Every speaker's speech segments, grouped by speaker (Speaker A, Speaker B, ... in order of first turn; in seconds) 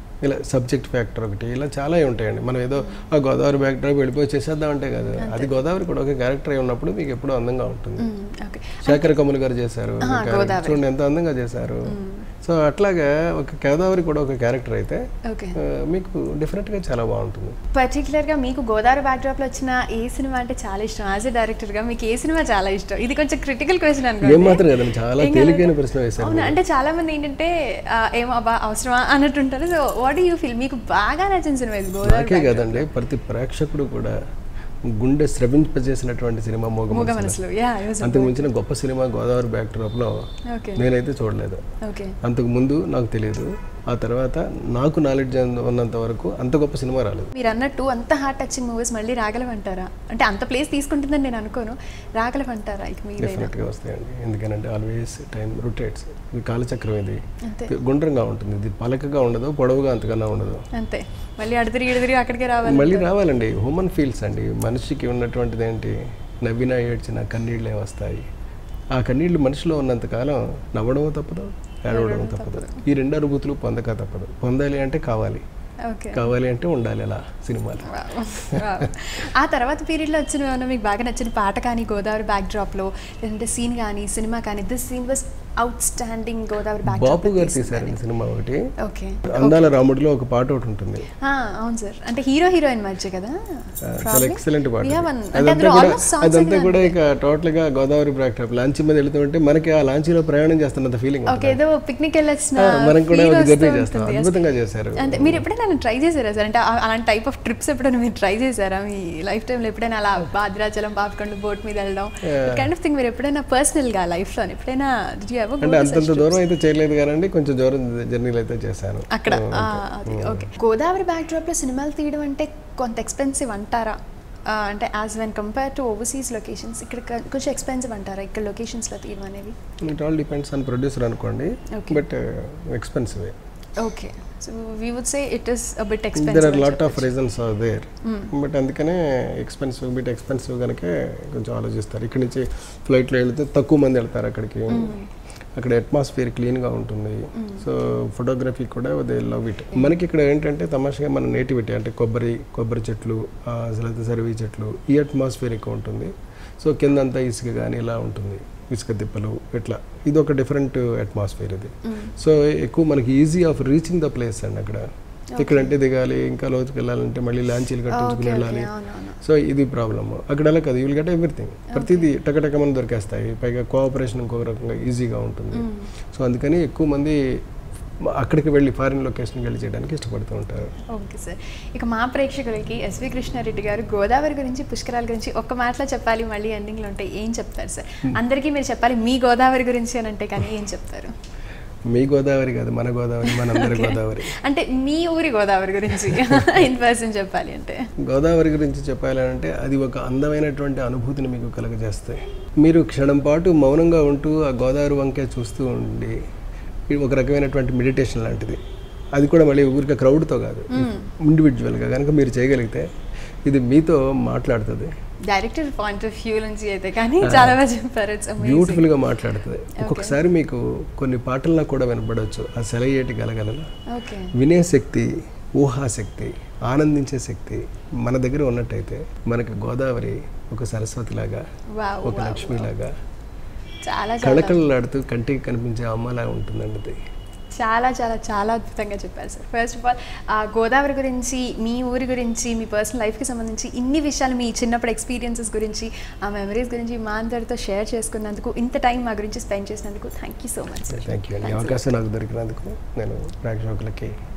Speaker A: 0.2-8.1, 8.8-15.0, 15.6-17.6, 24.2-26.6, 32.0-34.2, 34.9-37.4, 38.0-40.2, 40.8-41.6, 42.2-47.3, 53.2-60.7, 62.6-68.3, 68.9-75.4, 76.1-78.8, 86.8-88.6, 89.3-91.1, 93.9-101.6, 102.6-105.5, 112.2-112.7, 115.6-120.5, 129.9-133.3, 136.2-145.0, 145.6-177.2, 178.1-180.8, 191.9-194.3, 196.1-196.4, 198.1-206.2, 206.9-208.6, 209.2-212.9, 213.5-214.9, 217.2-217.6, 218.4-223.7, 224.3-231.4, 232.0-232.9, 234.2-237.0, 250.9-254.1
Speaker B: 5.2-5.6, 8.0-9.1, 10.0-10.8, 11.9-12.3, 15.3-15.6, 17.7-24.7, 25.2-32.9, 36.9-38.5, 40.5-40.8, 41.8-42.2, 47.3-53.5, 57.5-57.7, 60.7-63.1, 71.9-72.8, 75.9-76.3, 77.9-88.0, 88.8-89.7, 91.2-97.0, 101.3-104.4, 105.0-116.4, 119.1-124.0, 124.5-129.6, 131.7-132.0, 133.8-137.1, 138.0-138.3, 144.7-145.1, 147.4-147.7, 161.8-162.1, 165.3-165.8, 167.9-169.2, 171.7-172.1, 175.5-175.9, 180.9-191.1, 193.3-197.9, 210.7-211.1, 215.3-218.9, 219.8-220.2, 223.9-224.3, 231.7-232.7, 233.8-234.6, 237.6-251.9